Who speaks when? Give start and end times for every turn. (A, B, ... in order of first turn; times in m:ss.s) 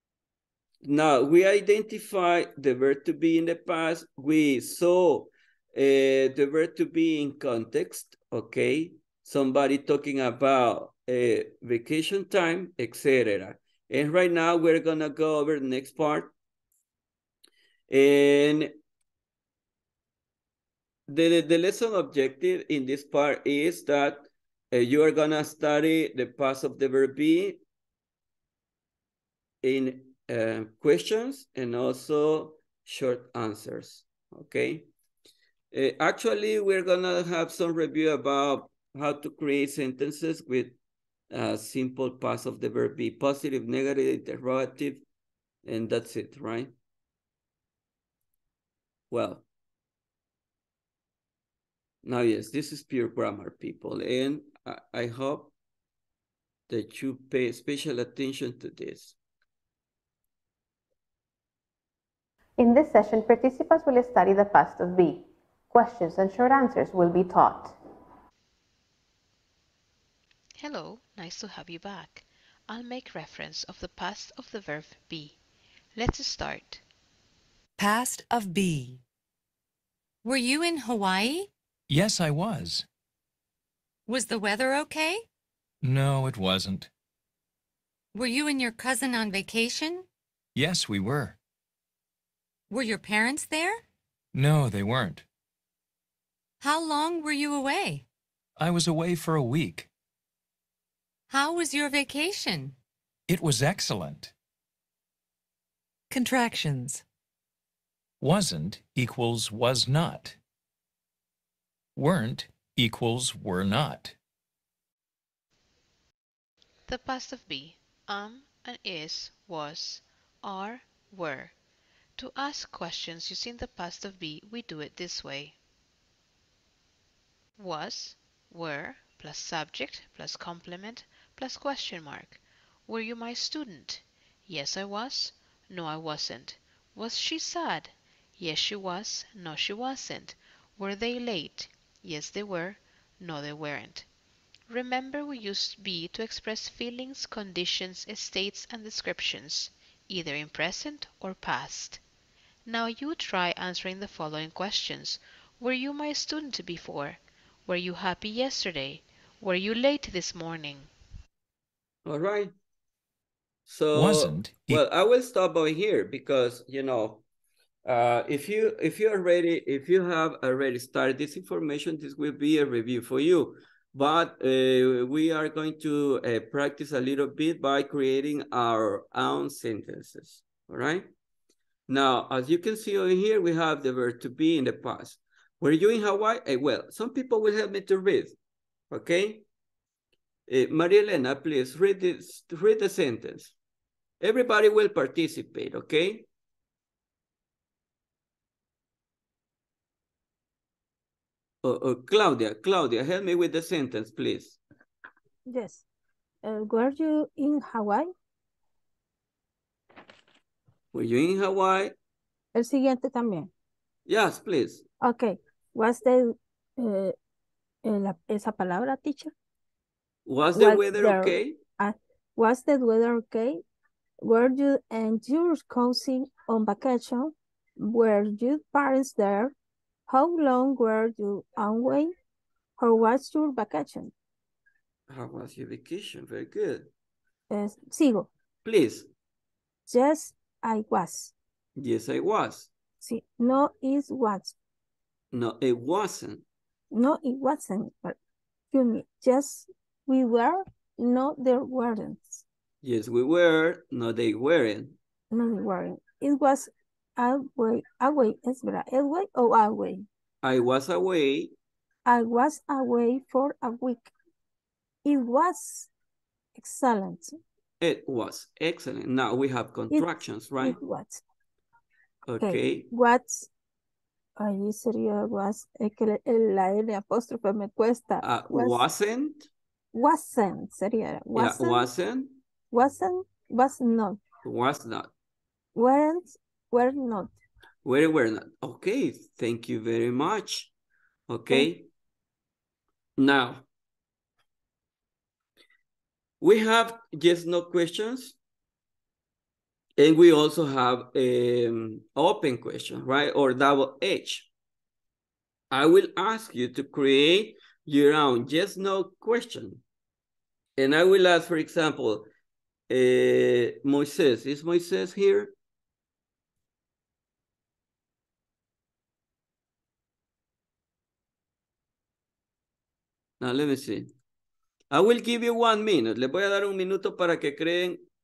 0:00.8-0:16.3 A
0:17.9-0:18.7 A
0:21.1-0:27.6 A
0:29.6-0:34.8 A
0:35.7-0:40.7 A
0:41.3-0:45.0 A
0:45.6-0:46.7 A
0:49.1-0:49.4 A
0:52.0-0:55.5 A
0:56.7-0:59.2 A
1:02.6-1:07.8 B
1:10.6-1:15.4 C
1:15.9-1:16.8 C
1:17.8-1:19.0 D
1:20.2-1:21.5 D
1:21.9-1:22.9 E
1:24.1-1:25.3 D
1:25.8-1:26.9 E
1:28.1-1:30.1 D
1:30.6-1:31.4 E
1:32.7-1:33.8 D
1:34.3-1:35.2 E
1:36.6-1:38.0 D
1:38.6-1:39.9 E
1:41.3-1:42.8 D
1:43.3-1:44.3 E
1:46.1-1:47.0 D
1:48.2-1:50.4 E
1:52.0-1:54.2 E
1:56.9-2:01.6 C
2:02.2-2:05.6 C
2:07.6-2:24.1 C
2:24.7-2:32.0 C
2:32.6-2:40.9 C
2:42.0-2:42.5 A
2:43.7-2:47.2 A
2:43.9-2:44.8 E
2:47.8-3:01.1 A
3:01.9-3:08.4 A
3:08.9-3:09.4 A
3:10.5-3:13.5 A
3:14.2-3:16.3 A
3:21.6-3:24.6 A
3:25.5-3:25.8 F
3:26.4-3:28.1 F
3:30.9-3:32.0 A
3:32.5-3:33.5 F
3:34.1-3:34.8 A
3:35.0-3:37.2 F
3:37.8-3:39.3 F
3:40.3-3:41.6 A
3:40.6-3:43.6 F
3:44.2-3:49.5 F
3:50.1-3:52.1 F
3:52.8-3:54.1 F
3:55.1-3:56.9 A
3:57.5-3:58.3 F
3:58.6-3:59.1 A
3:59.9-4:01.3 F
4:01.8-4:02.7 A
4:03.0-4:04.6 F
4:05.3-4:06.4 A
4:06.9-4:08.2 F
4:08.7-4:12.4 F
4:12.8-4:15.0 A
4:15.3-4:20.1 F
4:20.4-4:21.5 A
4:22.1-4:24.1 F
4:25.0-4:25.9 F
4:26.6-4:27.4 F
4:27.8-4:30.8 A
4:29.9-4:31.2 F
4:32.3-4:32.9 A
4:32.4-4:33.5 F
4:34.4-4:38.8 F
4:38.2-4:39.5 A
4:39.9-4:41.9 F
4:41.4-4:42.4 A
4:42.7-4:44.2 F
4:44.4-4:45.1 A
4:45.8-4:47.4 F
4:47.8-4:50.7 A
4:51.3-4:51.9 A
4:53.2-4:53.6 A
4:56.4-4:58.4 A
5:00.0-5:04.5 A
5:05.7-5:09.8 A
5:10.8-5:12.3 A
5:12.9-5:15.5 A
5:23.4-5:24.1 A
5:24.9-5:28.0 A